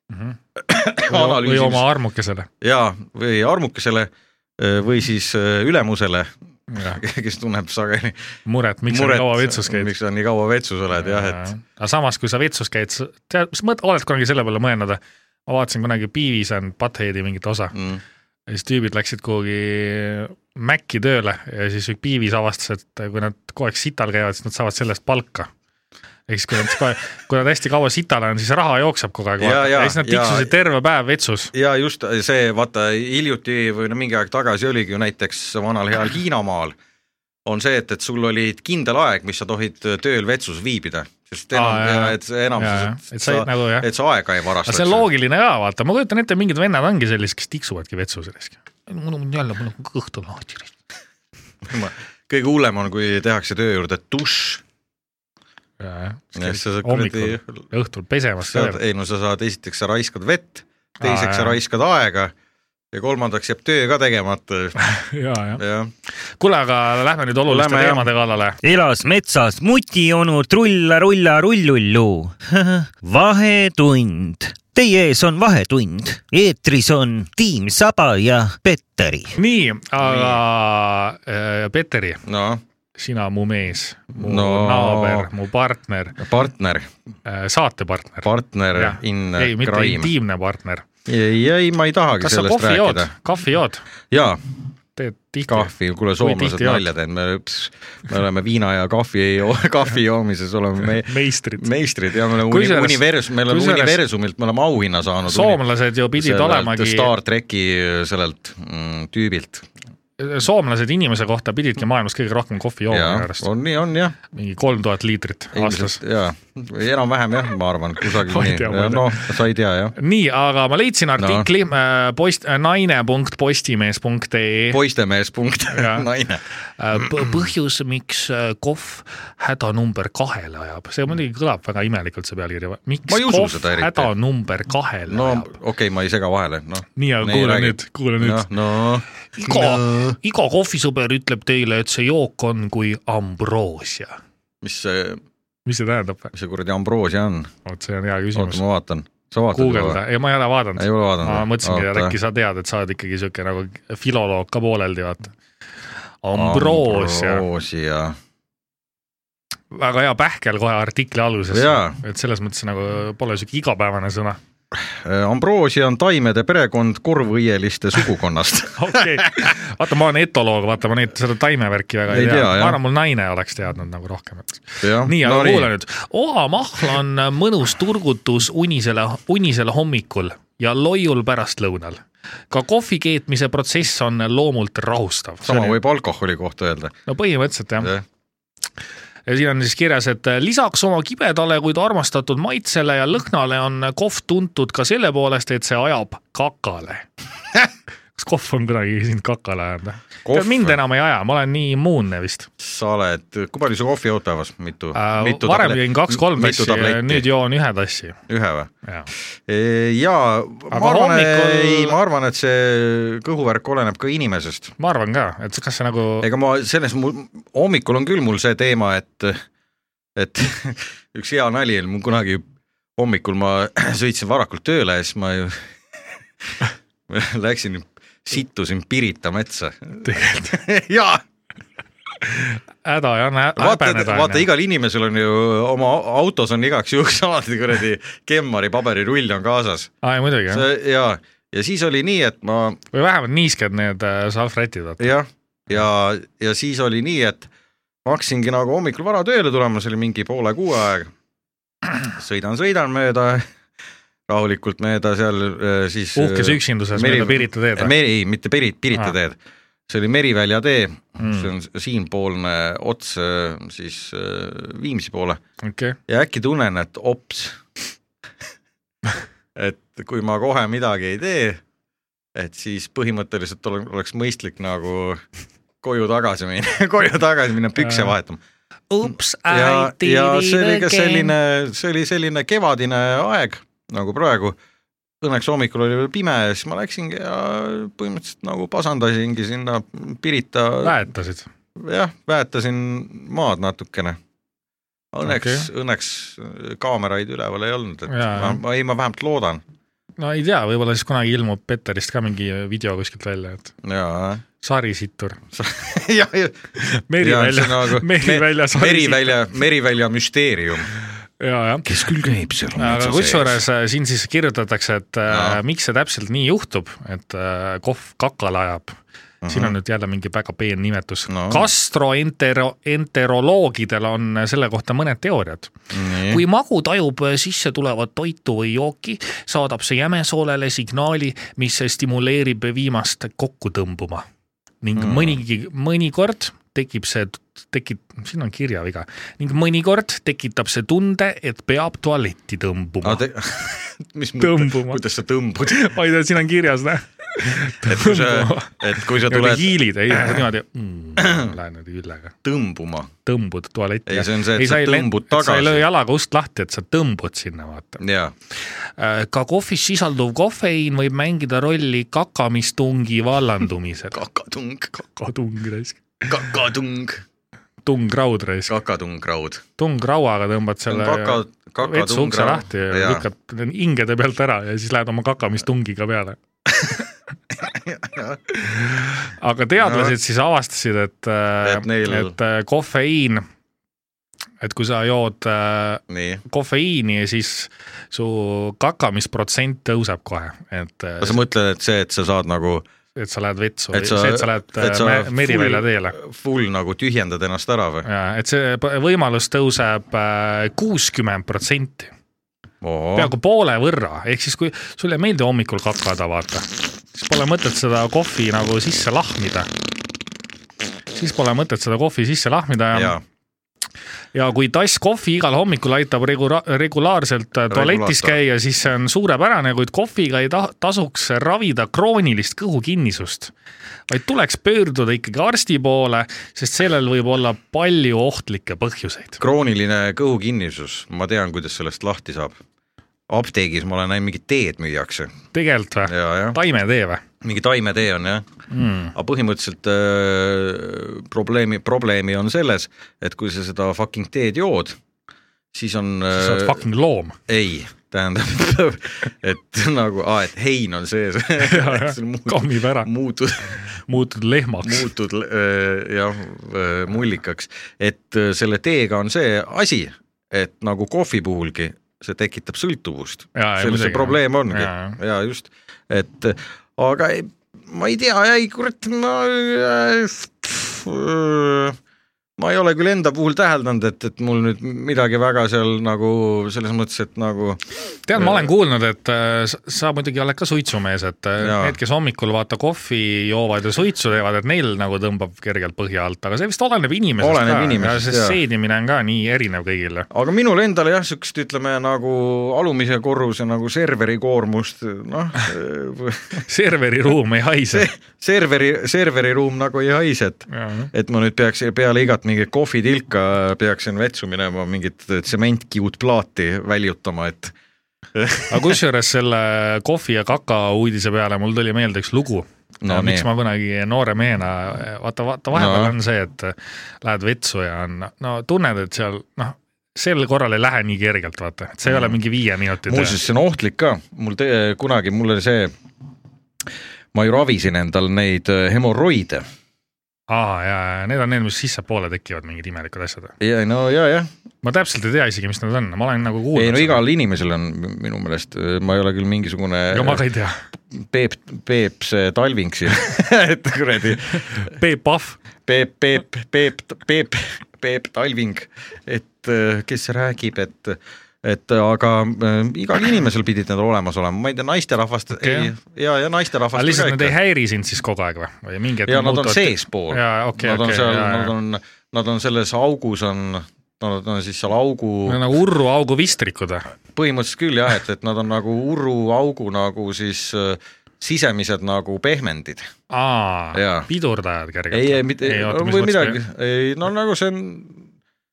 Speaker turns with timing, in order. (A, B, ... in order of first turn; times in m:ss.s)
0:00.1-0:00.4 A
0:00.6-0:01.9 B
0:01.0-0:02.5 A
0:02.6-0:08.2 B
0:06.7-0:07.0 A
0:08.5-0:09.9 A
0:08.9-0:11.5 B
0:11.0-0:17.8 A
0:17.7-0:18.0 B
0:18.5-0:25.5 A
0:26.3-0:31.5 A
0:29.4-0:30.5 B
0:31.5-0:36.8 B
0:37.5-0:45.1 B
0:41.5-0:43.9 A
0:44.7-0:50.7 A
0:51.6-0:54.6 B
0:55.8-0:58.8 A
0:56.4-0:57.6 B
0:58.4-1:02.3 B
1:01.0-1:01.6 A
1:02.9-1:04.9 B
1:04.8-1:05.6 A
1:05.6-1:05.9 B
1:06.4-1:08.6 A
1:07.4-1:08.1 B
1:08.6-1:19.4 C
1:19.4-1:22.2 A
1:20.0-1:20.4 B
1:22.3-1:22.6 B
1:23.0-1:26.2 A
1:24.1-1:25.3 B
1:26.2-1:26.9 B
1:27.3-1:30.8 A
1:28.2-1:30.1 B
1:31.1-1:33.1 B
1:32.2-1:33.8 A
1:34.1-1:34.4 B
1:35.0-1:36.9 A
1:35.5-1:45.6 B
1:41.0-1:41.7 A
1:42.4-1:44.0 A
1:45.3-1:47.1 A
1:46.2-1:49.7 B
1:50.2-1:53.5 A
1:52.9-1:54.2 B
1:54.3-1:56.0 A
1:55.5-2:00.0 B
1:58.1-1:59.3 A
2:00.0-2:04.8 A
2:01.2-2:01.5 B
2:04.7-2:06.4 B
2:05.7-2:06.1 A
2:06.8-2:15.5 A
2:07.0-2:07.3 B
2:13.1-2:14.1 B
2:15.1-2:20.2 B
2:17.0-2:18.5 A
2:19.4-2:24.2 A
2:24.6-2:25.2 B
2:25.7-2:26.3 A
2:26.3-2:27.5 B
2:27.6-2:28.6 A
2:28.4-2:30.0 B
2:29.5-2:35.3 A
2:30.8-2:32.2 B
2:36.2-2:37.5 A
2:36.3-2:38.2 B
2:39.7-2:44.4 A
2:41.5-2:42.0 B
2:44.7-2:49.6 B
2:48.8-3:05.8 A
2:52.1-2:52.8 B
2:54.8-2:55.7 B
3:05.4-3:07.0 B
3:07.1-3:07.9 A
3:07.8-3:08.0 B
3:09.3-3:17.1 A
3:18.2-3:22.5 A
3:20.2-3:20.8 B
3:22.6-3:27.3 B
3:25.0-3:28.2 A
3:28.3-3:28.7 B
3:29.5-3:34.7 B
3:30.7-3:32.0 A
3:34.8-3:36.3 A
3:36.2-3:39.4 B
3:40.2-3:42.4 B
3:43.0-3:45.6 B
3:46.6-3:51.2 B
3:50.0-3:50.6 A
3:52.2-3:54.5 A
3:53.6-3:59.9 B
4:00.0-4:00.7 A
4:00.5-4:02.8 B
4:02.9-4:05.1 A
4:05.0-4:07.5 B
4:08.0-4:11.1 B
4:12.0-4:13.4 B
4:14.3-4:25.4 B
4:16.2-4:17.9 A
4:21.2-4:21.5 A
4:25.6-4:26.0 A
4:26.1-4:27.8 B
4:29.6-4:31.6 B
4:32.4-4:35.2 B
4:35.8-4:38.4 B
4:37.8-4:38.1 A
4:38.9-4:41.3 A
4:39.0-4:44.6 B
4:45.2-4:51.0 B
4:50.8-4:51.5 A
4:51.8-4:54.2 B
4:55.1-4:59.6 B
4:55.2-4:55.7 A
4:58.1-4:58.6 A
5:00.2-5:03.7 A
5:03.8-5:04.4 B
5:04.6-5:05.4 A
5:05.5-5:06.6 B
5:06.8-5:09.4 A
5:07.2-5:10.9 B
5:11.4-5:11.9 A
5:11.8-5:13.6 B
5:12.8-5:19.0 A
5:15.3-5:15.6 B
5:19.4-5:19.8 B
5:19.5-5:25.7 A
5:21.3-5:21.7 B
5:25.9-5:26.4 B
5:26.3-5:34.3 A
5:34.8-5:43.2 A
5:35.0-5:35.4 B
5:43.0-5:45.8 B
5:44.4-5:45.0 A
5:45.6-5:52.3 A
5:47.8-5:50.4 B
5:51.2-5:51.5 B
5:52.4-5:53.1 B
5:53.3-5:58.0 A
5:54.1-5:55.8 B
5:58.0-5:58.3 B
5:59.0-6:04.2 A
6:04.1-6:05.0 B
6:05.0-6:06.3 A
6:06.3-6:07.2 B
6:07.8-6:08.8 A
6:08.7-6:09.6 B
6:09.8-6:16.4 A
6:10.9-6:13.3 B
6:16.8-6:17.0 B
6:17.5-6:18.4 B
6:18.6-6:23.4 A
6:19.8-6:20.1 B
6:21.6-6:22.3 B
6:24.6-6:31.4 A
6:26.1-6:26.4 B
6:31.2-6:32.8 B
6:33.2-6:36.2 A
6:33.9-6:38.1 B
6:38.0-6:42.1 A
6:42.8-6:43.3 B
6:43.2-6:49.7 A
6:51.2-6:53.2 A
6:52.9-6:53.2 B
6:54.3-7:03.5 A
6:57.7-6:58.4 B
7:04.1-7:09.4 A
7:09.4-7:12.6 B
7:13.3-7:15.3 B
7:15.5-7:17.2 A
7:16.1-7:16.6 B
7:17.4-7:18.4 B
7:18.7-7:19.1 A
7:19.1-7:25.0 B
7:25.7-7:26.8 B
7:26.3-7:27.4 A
7:27.5-7:33.9 B
7:31.6-7:33.1 A
7:33.8-7:35.1 A
7:34.8-7:52.0 B
7:43.6-7:45.2 A
7:52.6-7:57.8 B
7:58.3-8:10.3 A
7:58.4-7:58.7 B
8:01.6-8:02.0 B
8:07.4-8:08.6 B
8:10.3-8:16.7 B
8:16.7-8:18.1 A
8:17.9-8:27.7 B
8:20.7-8:21.1 A
8:28.4-8:29.0 B
8:28.7-8:43.4 A
8:33.0-8:33.5 B
8:35.7-8:36.2 B
8:42.1-8:42.4 B
8:43.1-8:45.9 B
8:47.3-8:49.7 B
8:50.5-8:53.5 A
8:53.6-8:54.5 B
8:54.8-8:57.2 A
8:56.8-9:00.4 B
9:00.1-9:00.8 A
9:01.2-9:04.9 B
9:04.7-9:05.6 A
9:05.9-9:17.6 B
9:15.6-9:15.9 A
9:17.0-9:21.7 A
9:19.3-9:25.6 B
9:25.5-9:27.1 A
9:27.3-9:33.1 B
9:33.3-9:36.6 A
9:33.9-9:34.3 B
9:35.1-9:38.2 B